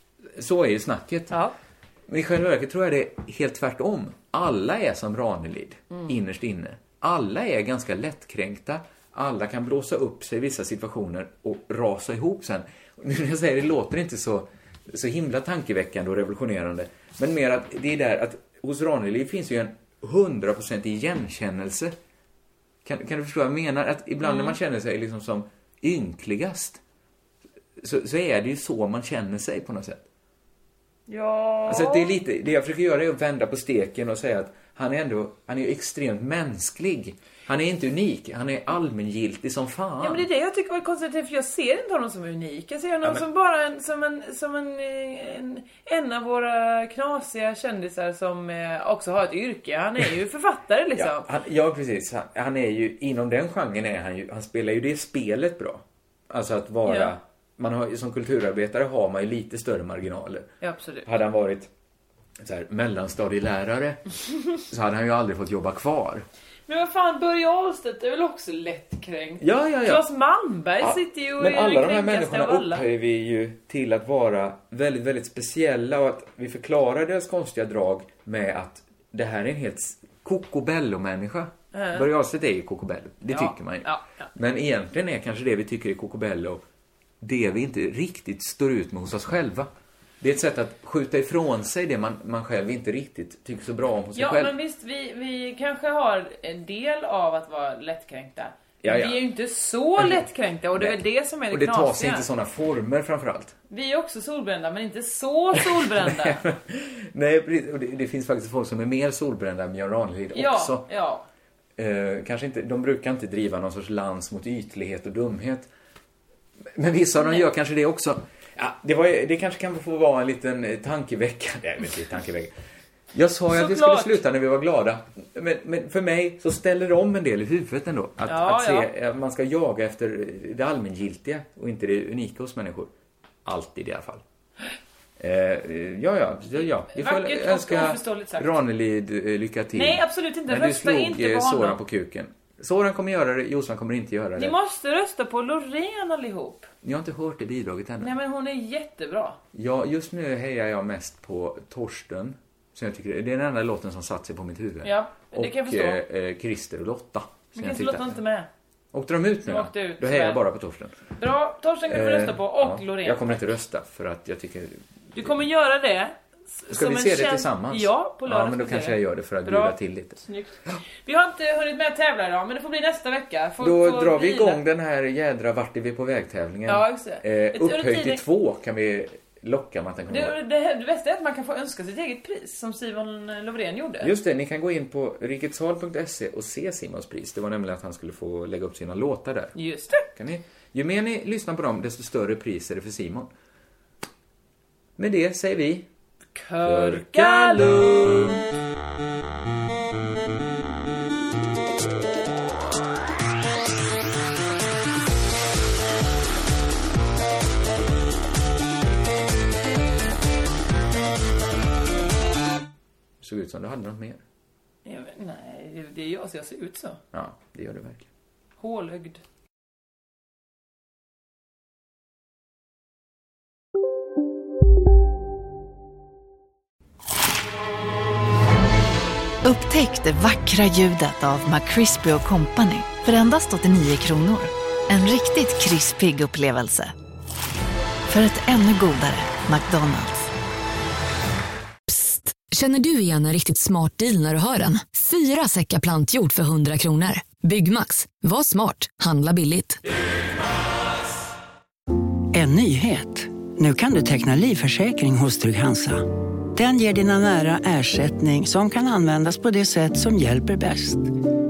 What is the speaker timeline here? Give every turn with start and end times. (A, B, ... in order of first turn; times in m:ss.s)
0:00.3-0:01.4 A
0:02.1-0:21.9 A
0:22.8-0:26.8 A
0:24.2-0:24.5 B
0:27.8-0:30.0 A
0:31.1-0:32.1 B
0:31.6-0:40.2 A
0:40.0-0:51.3 B
0:51.0-1:00.5 A
0:56.8-0:57.1 B
1:00.6-1:01.1 B
1:01.0-1:01.7 A
1:02.4-1:04.0 A
1:04.7-1:06.2 A
1:06.7-1:12.8 B
1:09.4-1:10.0 A
1:10.8-1:26.6 A
1:21.7-1:22.1 B
1:23.3-1:24.3 B
1:27.2-1:29.7 A
1:30.2-1:34.6 A
1:34.1-1:42.3 B
1:38.8-1:39.2 A
1:40.8-1:43.6 A
1:43.7-1:46.4 B
1:45.5-1:50.9 A
1:50.3-1:51.2 B
1:51.8-1:55.7 A
1:56.7-2:02.5 A
2:03.1-2:12.9 A
2:03.5-2:04.2 B
2:08.2-2:08.9 B
2:13.4-2:14.2 A
2:15.2-2:24.5 A
2:16.9-2:18.6 B
2:19.7-2:21.8 B
2:24.4-2:26.7 B
2:26.8-2:28.1 A
2:28.0-2:29.4 B
2:29.5-2:38.2 A
2:34.8-2:36.0 B
2:37.5-2:38.5 B
2:38.9-2:41.0 A
2:39.4-2:40.4 B
2:41.1-2:43.3 B
2:41.9-2:45.3 A
2:45.1-2:54.6 B
2:46.7-2:50.8 A
2:53.6-3:00.3 A
2:56.7-2:58.2 B
3:00.1-3:04.1 B
3:04.0-3:09.5 A
3:09.5-3:10.0 B
3:10.1-3:13.3 A
3:15.0-3:15.9 A
3:16.3-3:18.3 B
3:16.6-3:18.4 A
3:33.2-3:34.2 A
3:34.8-3:37.0 B
3:37.1-3:38.0 A
3:38.6-3:39.2 B
3:49.4-3:56.9 C
3:58.1-4:00.3 C
4:02.7-4:09.7 D
4:12.3-4:21.1 E